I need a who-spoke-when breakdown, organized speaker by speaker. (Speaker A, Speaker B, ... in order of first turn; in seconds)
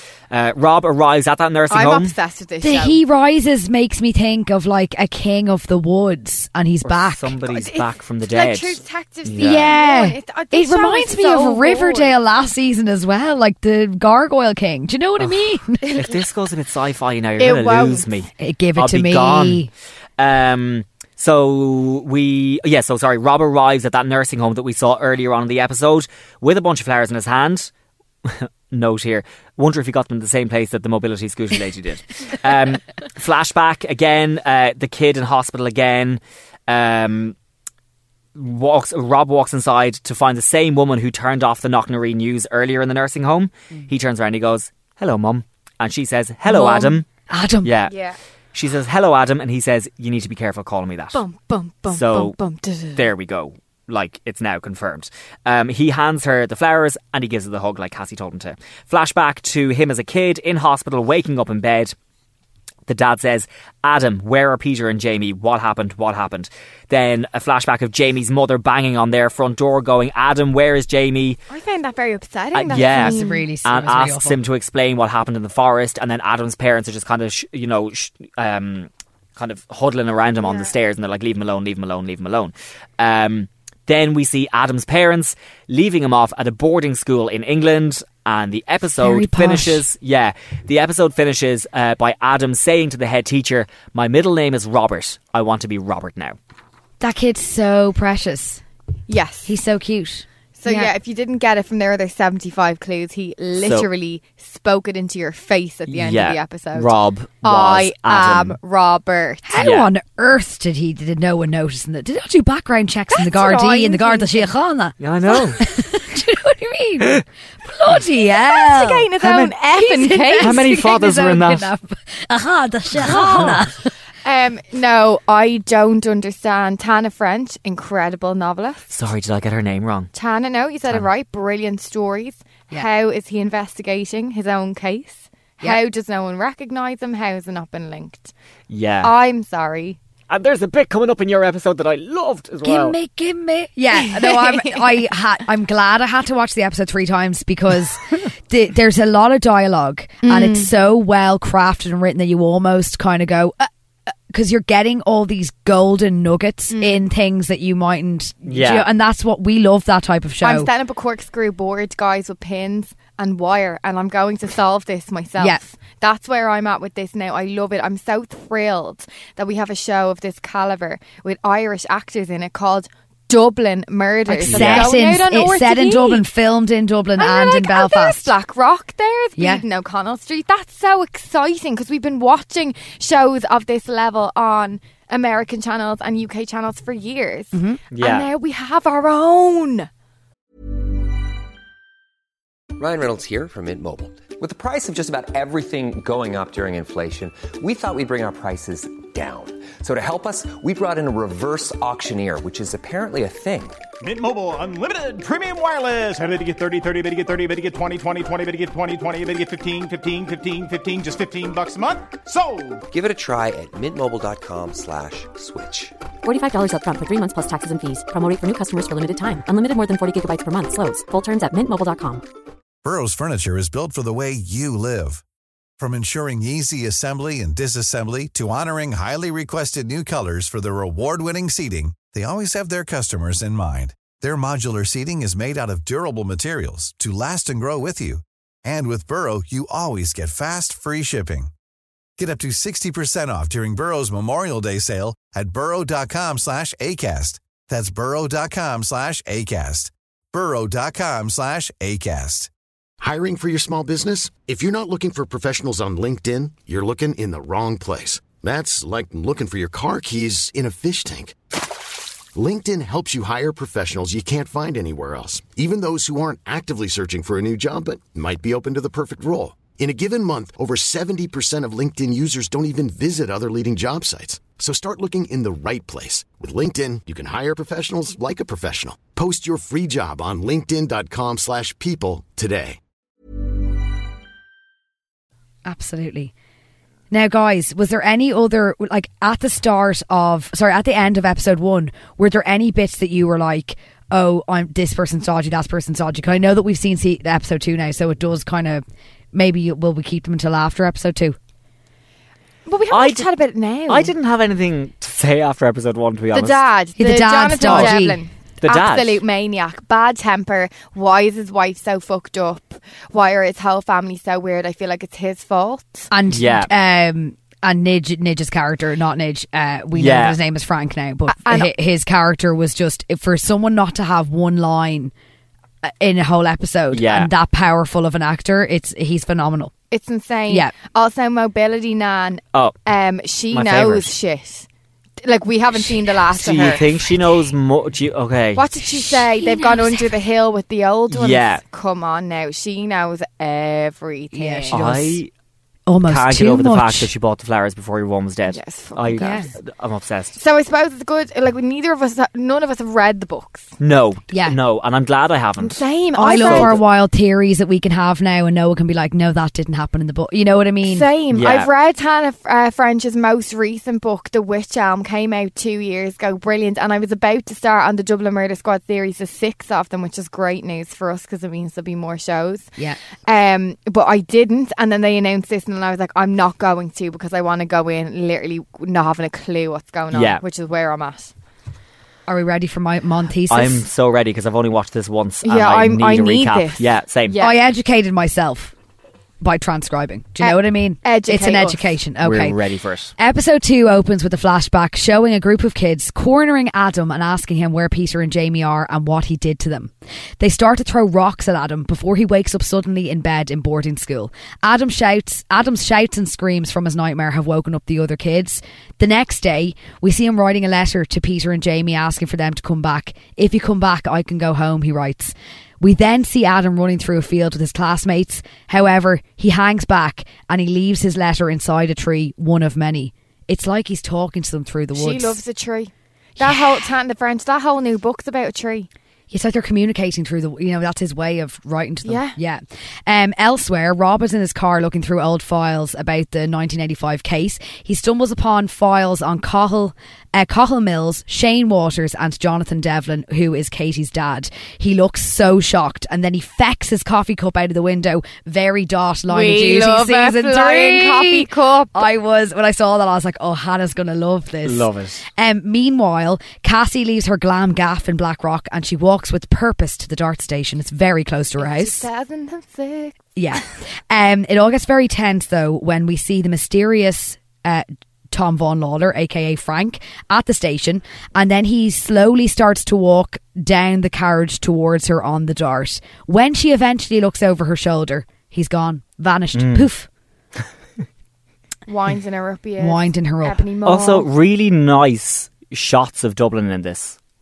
Speaker A: 0.3-2.1, 6.8-9.8, 15.2-19.7, 20.2-27.7, 28.2-37.4, 38.4-47.1, 47.6-47.9, 48.5-51.2, 51.9-52.4, 53.0-61.9, 62.9-71.4, 72.5-96.4, 103.6-103.9, 105.9-108.6, 109.6-109.9, 115.0-115.6, 119.2-119.5, 120.4-121.7, 123.2-123.5, 128.9-130.1, 138.7-139.1, 140.3-143.0, 158.5-158.9, 174.4-175.0, 187.9-188.3, 302.9-303.3, 303.9-306.6, 307.5-308.0, 308.6-309.2, 316.3-316.7, 319.9-320.4, 326.9-327.3, 333.5-334.1, 336.3-338.7, 341.1-341.6, 344.7-345.3, 346.1-350.4, 353.8-356.8, 361.3-361.7, 380.1-380.4, 383.5-387.4, 392.2-393.1, 454.6-455.2, 479.6-479.9, 483.9-487.2
Speaker B: 1.7-3.0, 7.5-12.2, 17.4-18.1, 47.9-48.2, 51.1-53.0, 71.5-73.5, 80.4-80.7, 99.1-99.5, 100.6-106.9, 107.4-109.7, 113.1-114.5, 118.5-120.6, 123.0-123.6, 124.2-128.9, 130.1-138.3, 139.0-140.0, 144.0-145.1, 150.2-150.7, 156.7-157.0, 160.4-176.2, 177.2-189.9, 302.7-304.1, 306.3-316.1, 321.4-321.7, 329.9-334.7, 335.2-336.9, 338.6-344.9, 348.5-349.5, 350.4-353.7, 355.6-356.8, 360.8-372.7, 373.3-381.3, 385.4-387.6, 390.4-391.9, 424.9-428.9, 432.0-432.4, 449.3-452.0, 461.6-463.2, 481.9-484.3
Speaker C: 2.6-7.4, 9.4-16.0, 18.4-19.7, 46.5-47.7, 72.8-74.4, 89.0-89.8, 97.0-98.6, 99.5-100.9, 109.4-115.0, 115.5-119.1, 119.7-123.9, 142.6-153.7, 154.3-160.7, 174.3-178.3, 179.4-179.6, 187.5-187.8, 285.6-286.3, 287.1-301.4, 307.0-308.2, 316.1-325.1, 325.8-329.7, 330.5-330.7, 339.4-340.0, 344.3-345.2, 345.9-347.1, 349.2-349.5, 354.3-354.6, 356.1-361.1, 382.3-383.8, 387.4-388.7, 389.4-392.6, 393.2-425.4, 429.3-462.1, 463.4-480.1, 482.8-483.6
Speaker D: 192.8-203.8, 212.9-215.9
Speaker E: 204.0-212.8
Speaker F: 216.2-222.2
Speaker G: 222.8-225.2, 225.8-241.5, 242.2-252.5
Speaker H: 253.0-261.4, 262.4-282.8